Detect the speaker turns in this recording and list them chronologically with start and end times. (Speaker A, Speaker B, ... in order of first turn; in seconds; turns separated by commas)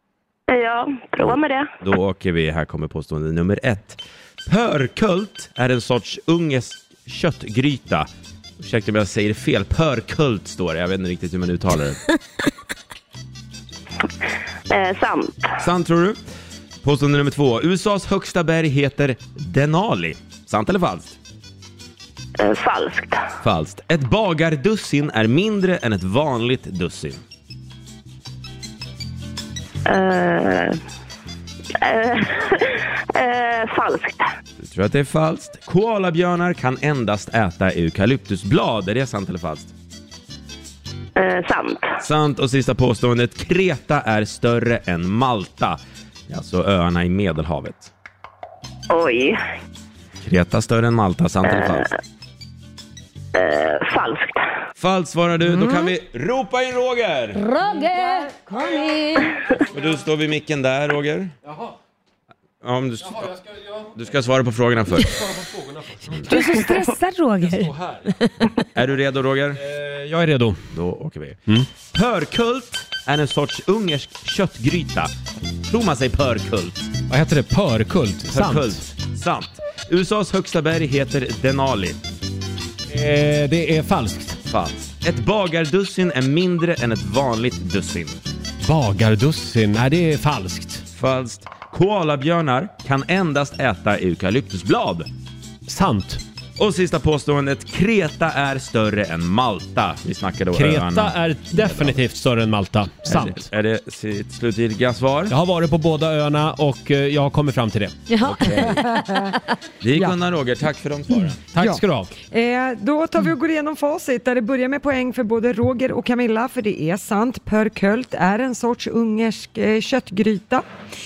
Speaker A: 0.5-1.7, Speaker B: 1.2-8.1, Speaker B: 8.6-12.0, Speaker A: 14.7-15.5, Speaker B: 15.6-16.2, Speaker B: 16.8-21.2, Speaker A: 22.4-23.2, Speaker B: 23.4-27.2, Speaker A: 29.9-30.8, Speaker A: 31.8-34.2, Speaker B: 34.6-39.7, Speaker A: 41.2-42.0, Speaker B: 42.0-47.9, Speaker A: 48.9-49.4, Speaker B: 50.2-51.9, Speaker A: 51.5-51.8, Speaker A: 53.4-54.4, Speaker B: 54.8-57.4, Speaker C: 57.4-59.4, Speaker B: 59.7-61.3, Speaker D: 61.5-61.8, Speaker B: 62.6-63.3, Speaker D: 63.0-64.0, Speaker B: 64.0-65.1, Speaker D: 65.0-66.7, Speaker C: 66.3-68.3, Speaker D: 67.4-68.2, Speaker B: 68.8-69.6, Speaker D: 69.6-70.7, Speaker B: 70.7-75.1, Speaker B: 75.7-76.9, Speaker D: 77.1-78.9, Speaker B: 78.3-82.0, Speaker D: 82.9-84.4, Speaker B: 84.5-88.2, Speaker D: 88.6-90.8, Speaker B: 91.0-95.1, Speaker D: 95.7-96.2, Speaker B: 96.6-102.0, Speaker D: 100.5-103.5, Speaker B: 103.0-105.3, Speaker D: 105.3-108.0, Speaker C: 108.1-109.0, Speaker B: 108.2-108.8, Speaker E: 108.9-109.3, Speaker B: 109.8-111.4, Speaker D: 111.5-112.1, Speaker E: 111.6-120.7